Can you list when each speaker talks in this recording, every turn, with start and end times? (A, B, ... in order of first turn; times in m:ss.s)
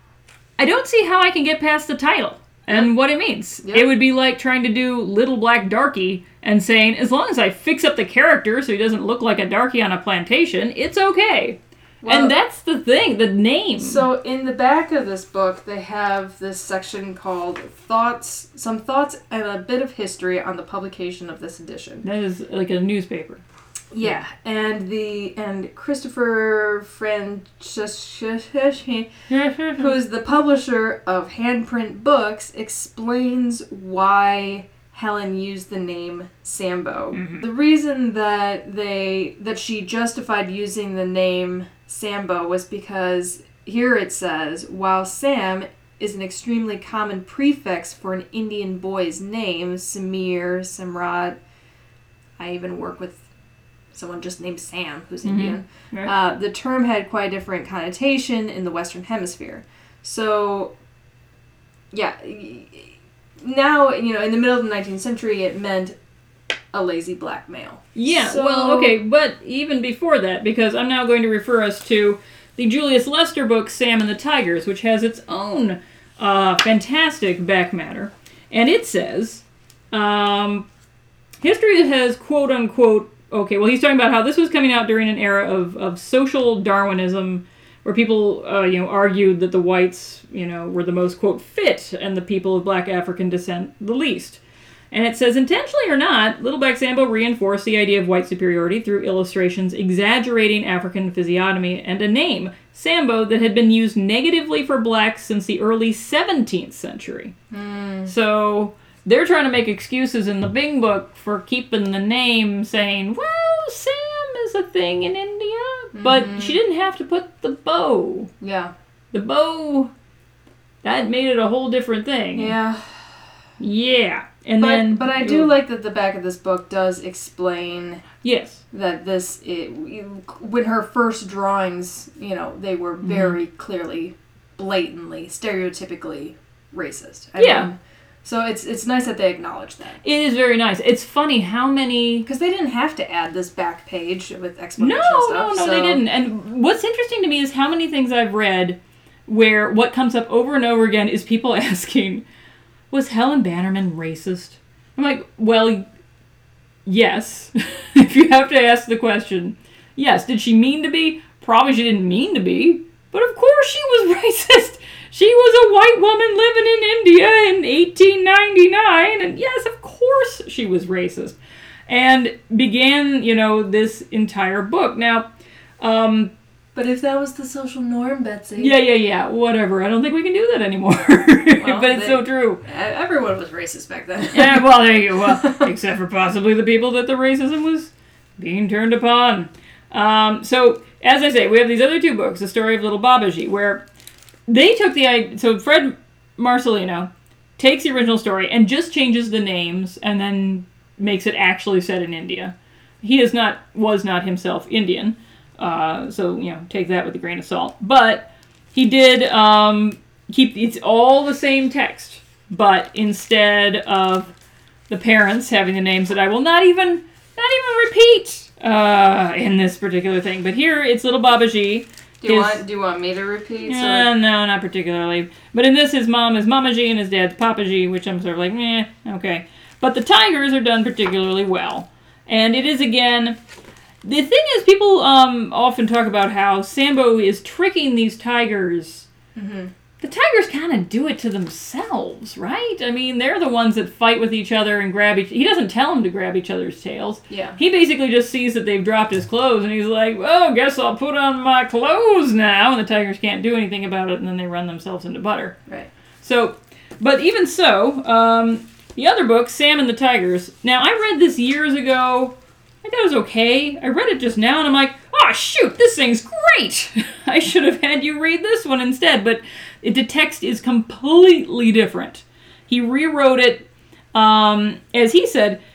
0:00.6-0:14.1 A
0:12.0-0:12.3 B
0:13.8-0:22.0 B
0:22.0-0:23.4 A
0:23.9-0:29.1 B
0:29.3-0:30.0 A
0:29.8-0:51.4 B
0:37.1-0:37.4 A
0:52.4-0:53.2 B
0:53.9-1:00.7 B
0:55.2-0:56.1 A
1:01.9-1:06.0 B
1:06.7-1:09.0 B
1:07.9-1:20.6 A
1:21.4-1:34.4 A
1:34.9-1:47.3 A
1:47.5-1:48.1 B
1:48.1-1:58.3 A
1:55.9-1:56.6 B
1:58.4-1:58.7 B
1:59.1-1:59.9 A
2:00.8-2:02.6 A
2:02.3-2:03.1 B
2:03.6-2:05.5 A
2:04.6-2:08.0 B
2:08.2-2:08.6 A
2:08.7-2:20.0 B
2:13.0-2:13.4 A
2:17.4-2:17.7 A
2:20.0-2:22.3 A
2:22.2-2:26.0 B
2:24.8-2:32.2 A
2:32.9-2:35.8 A
2:36.8-2:51.4 A
2:51.9-2:55.3 A
2:55.8-2:56.3 A
2:56.7-2:58.7 B
2:58.6-3:02.6 A
3:01.5-3:04.7 B
3:04.3-3:13.8 A
3:14.5-3:34.3 A
3:34.9-3:42.6 A
3:42.2-3:44.1 B
3:43.6-3:53.4 A
3:54.0-3:59.1 A
3:59.3-3:59.7 B
4:00.0-4:15.6 A
4:07.3-4:07.6 B
4:16.2-4:35.6 A